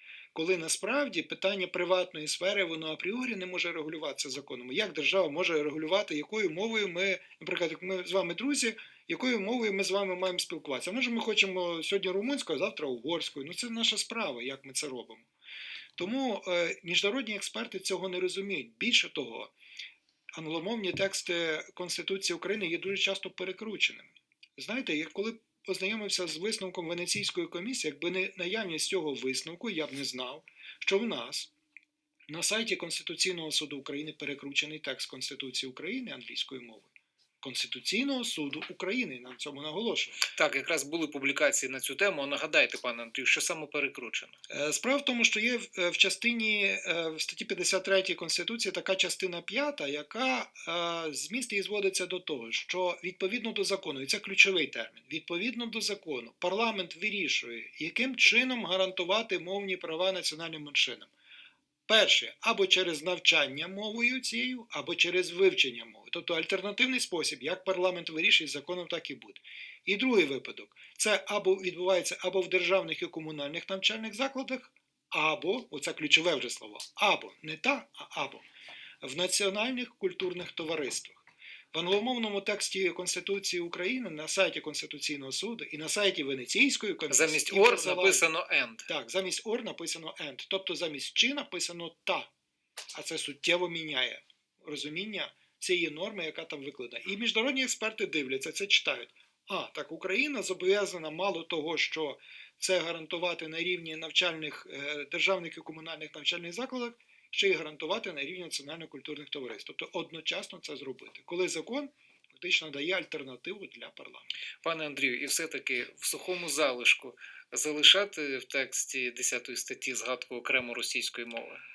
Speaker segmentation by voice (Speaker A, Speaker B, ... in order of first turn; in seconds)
Speaker A: 0.3-15.3, 16.0-19.5, 20.4-31.5, 32.3-36.9, 37.4-40.2, 44.5-61.1, 61.9-78.4, 79.0-88.3, 88.9-92.3, 92.9-114.3
Speaker B: 40.3-44.4, 87.1-88.9, 114.6-121.6